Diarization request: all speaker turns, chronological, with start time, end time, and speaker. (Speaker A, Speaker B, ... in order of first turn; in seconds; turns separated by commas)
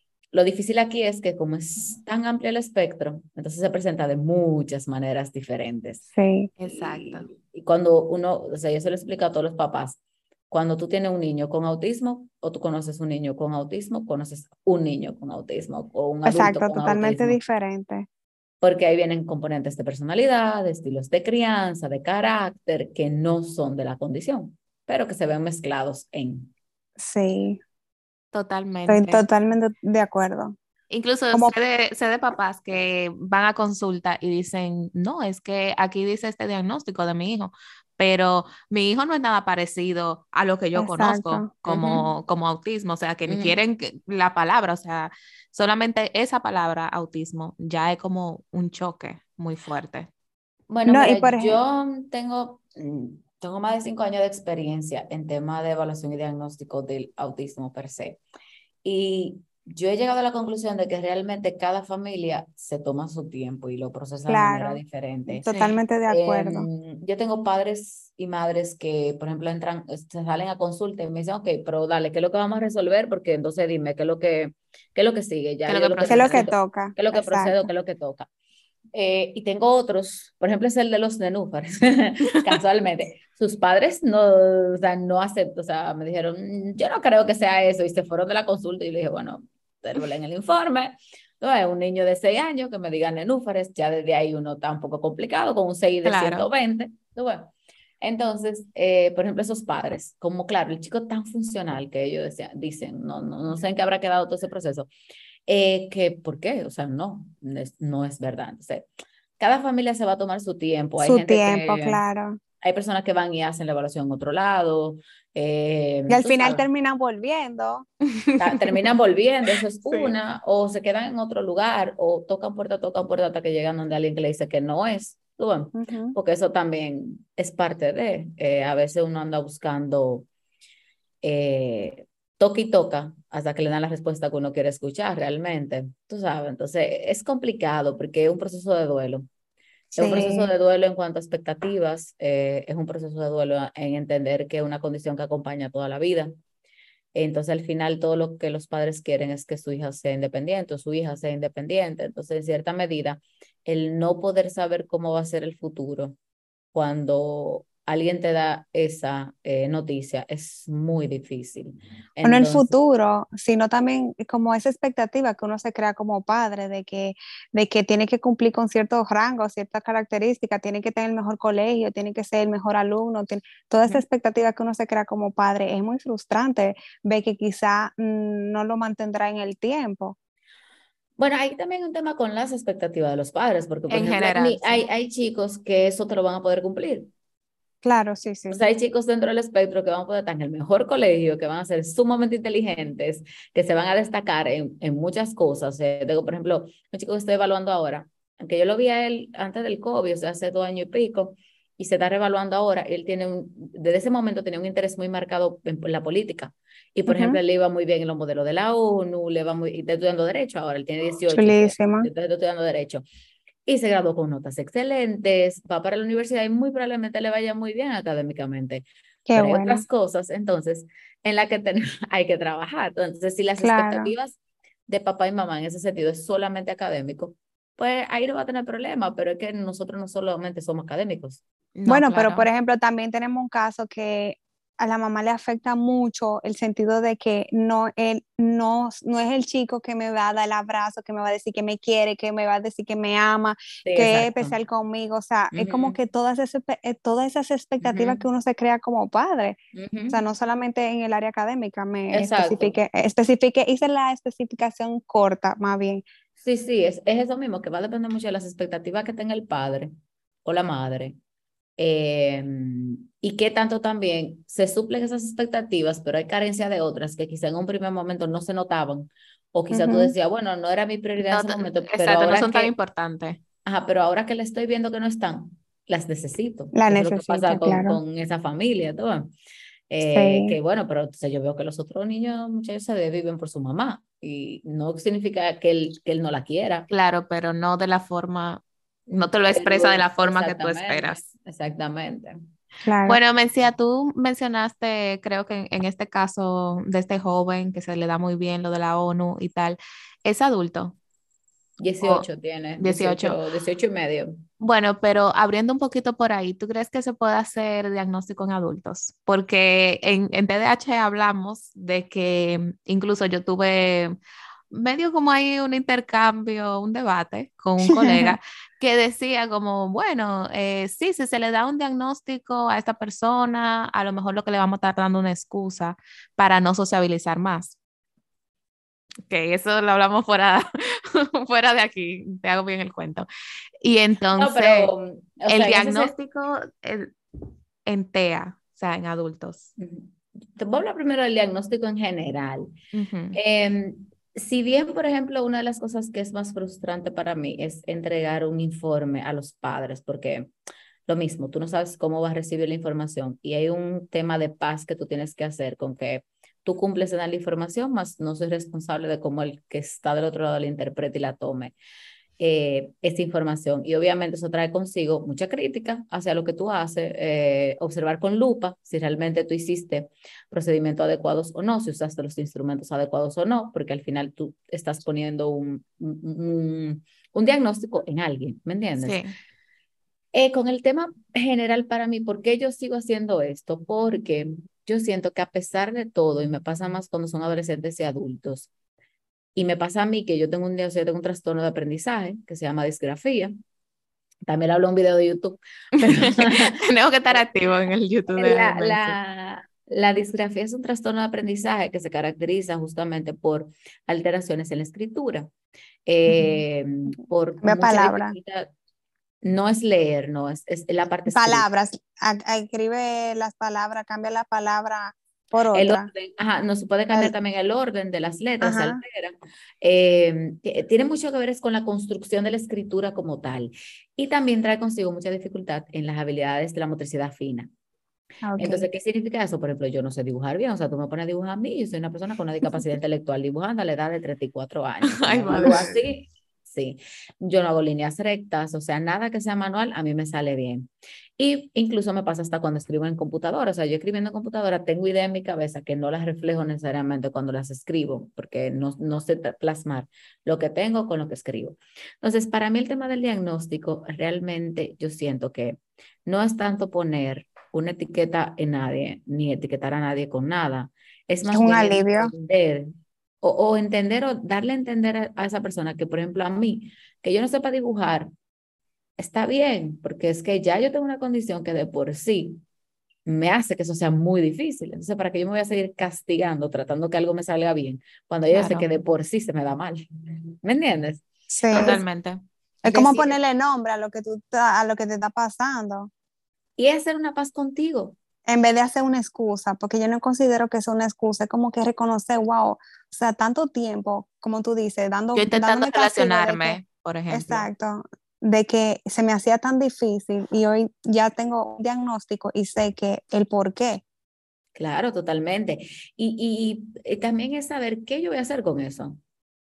Speaker A: 0.3-6.0, Speaker B: 6.2-6.5, Speaker C: 6.6-7.3, Speaker A: 6.7-10.0, Speaker A: 10.5-17.4, Speaker B: 16.2-18.1, Speaker A: 18.6-26.5, Speaker B: 27.0-27.6, Speaker C: 28.3-29.2, Speaker B: 28.9-30.6, Speaker C: 30.9-50.1, Speaker B: 40.8-41.5, Speaker A: 41.6-42.0, Speaker A: 43.2-43.6, Speaker A: 50.7-58.2, Speaker B: 50.9-51.6, Speaker A: 58.8-65.5, Speaker B: 64.3-66.7, Speaker C: 65.5-65.8, Speaker A: 66.1-78.3, Speaker C: 75.7-76.4, Speaker B: 76.1-77.6, Speaker A: 78.9-104.9, Speaker C: 96.0-96.5, Speaker A: 105.5-108.9, Speaker A: 109.4-112.0, Speaker B: 111.0-112.4, Speaker A: 112.6-116.6, Speaker B: 116.1-117.9, Speaker A: 118.4-130.3, Speaker B: 125.7-126.1, Speaker A: 131.2-139.3, Speaker B: 139.9-140.5, Speaker A: 139.9-146.3, Speaker A: 147.1-156.2, Speaker A: 156.7-162.8, Speaker B: 162.2-180.2, Speaker A: 181.2-187.1, Speaker C: 183.9-184.8, Speaker B: 187.8-188.6, Speaker A: 188.5-213.0, Speaker B: 207.1-207.4, Speaker B: 211.3-212.1, Speaker A: 213.7-231.4, Speaker B: 219.3-219.8, Speaker B: 223.6-224.1, Speaker C: 231.8-232.5, Speaker B: 231.9-249.6, Speaker A: 243.8-244.5, Speaker A: 245.5-246.0, Speaker A: 247.8-248.2, Speaker A: 249.7-250.2, Speaker B: 250.1-256.0, Speaker A: 252.1-252.8, Speaker A: 256.4-259.9, Speaker A: 260.4-261.2, Speaker A: 261.8-272.7, Speaker B: 269.7-270.1, Speaker C: 271.2-273.4, Speaker A: 273.6-279.3, Speaker B: 276.7-278.0, Speaker A: 279.9-286.9, Speaker B: 280.1-280.6, Speaker C: 286.9-291.2, Speaker A: 289.5-292.4, Speaker B: 292.8-293.2, Speaker C: 293.1-300.9, Speaker A: 301.8-304.4, Speaker C: 302.8-303.4, Speaker C: 304.6-314.1, Speaker C: 314.7-327.8, Speaker B: 317.8-318.4, Speaker C: 329.3-333.3, Speaker C: 333.8-334.9, Speaker A: 334.4-336.1, Speaker C: 335.5-337.1, Speaker C: 337.9-339.7, Speaker A: 339.8-342.7, Speaker C: 342.9-343.4, Speaker A: 343.3-350.5, Speaker A: 351.1-361.7, Speaker A: 362.4-379.2, Speaker C: 379.0-379.3, Speaker A: 380.3-388.7, Speaker A: 389.6-393.5, Speaker A: 394.4-396.8, Speaker C: 396.0-399.1, Speaker A: 398.3-405.5, Speaker A: 406.1-408.7, Speaker B: 407.6-408.4, Speaker A: 409.4-411.6, Speaker B: 411.3-416.1, Speaker A: 415.7-427.7, Speaker B: 418.6-419.0, Speaker B: 428.4-428.9, Speaker A: 428.6-468.3, Speaker C: 435.1-436.0, Speaker B: 461.5-462.3, Speaker A: 469.2-472.6, Speaker A: 473.2-481.2, Speaker C: 478.5-478.9, Speaker B: 481.5-482.0, Speaker C: 481.7-482.4, Speaker A: 482.8-483.4, Speaker B: 482.8-486.1, Speaker A: 486.8-488.1, Speaker B: 488.5-504.0, Speaker C: 495.3-497.7, Speaker A: 504.7-509.2